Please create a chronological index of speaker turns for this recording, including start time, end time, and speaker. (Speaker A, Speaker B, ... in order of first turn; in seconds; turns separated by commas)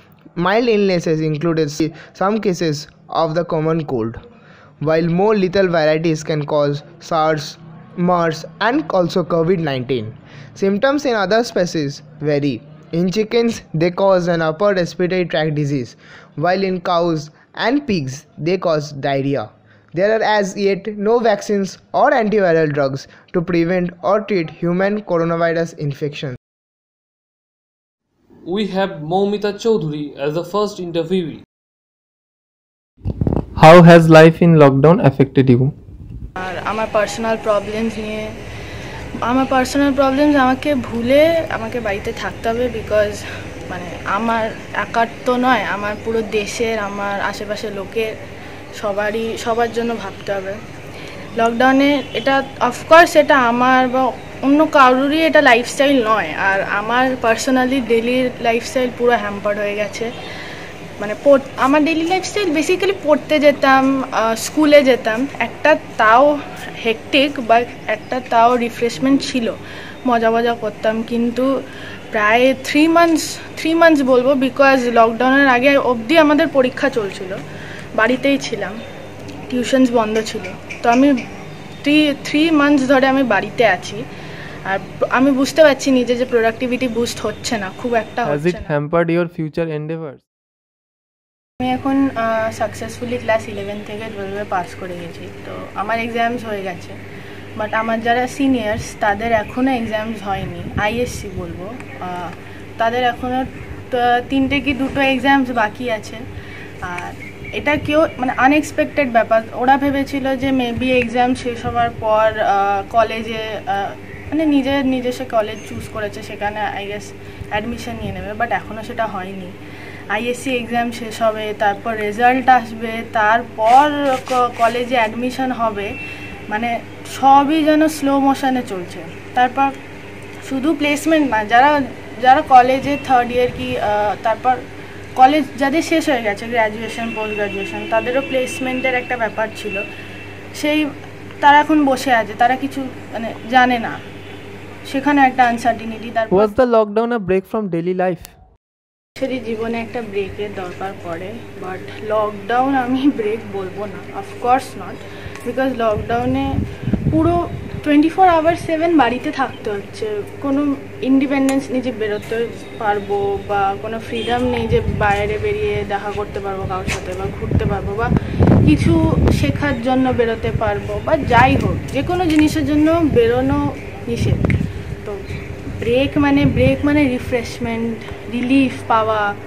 Speaker A: 0.4-4.2, Speaker A: 4.8-26.4, Speaker B: 28.5-31.4, Speaker C: 33.6-35.7, Speaker D: 36.4-38.3, Speaker D: 39.3-48.1, Speaker D: 48.8-50.6, Speaker D: 51.4-60.1, Speaker D: 61.0-66.3, Speaker D: 66.8-69.5, Speaker D: 70.1-71.5, Speaker D: 72.1-77.4, Speaker D: 78.0-78.8, Speaker D: 79.5-81.1, Speaker D: 81.8-84.0, Speaker D: 84.7-88.7, Speaker C: 88.2-90.2, Speaker D: 91.6-97.0, Speaker D: 97.6-106.2, Speaker D: 106.8-119.5, Speaker D: 120.1-125.9, Speaker D: 126.5-129.7, Speaker D: 130.5-134.6, Speaker D: 135.2-139.8, Speaker D: 140.6-140.9, Speaker D: 141.4-143.9, Speaker D: 144.9-146.5, Speaker C: 146.3-148.3, Speaker D: 149.2-156.5, Speaker D: 157.1-168.1, Speaker D: 168.7-174.4, Speaker D: 175.8-179.2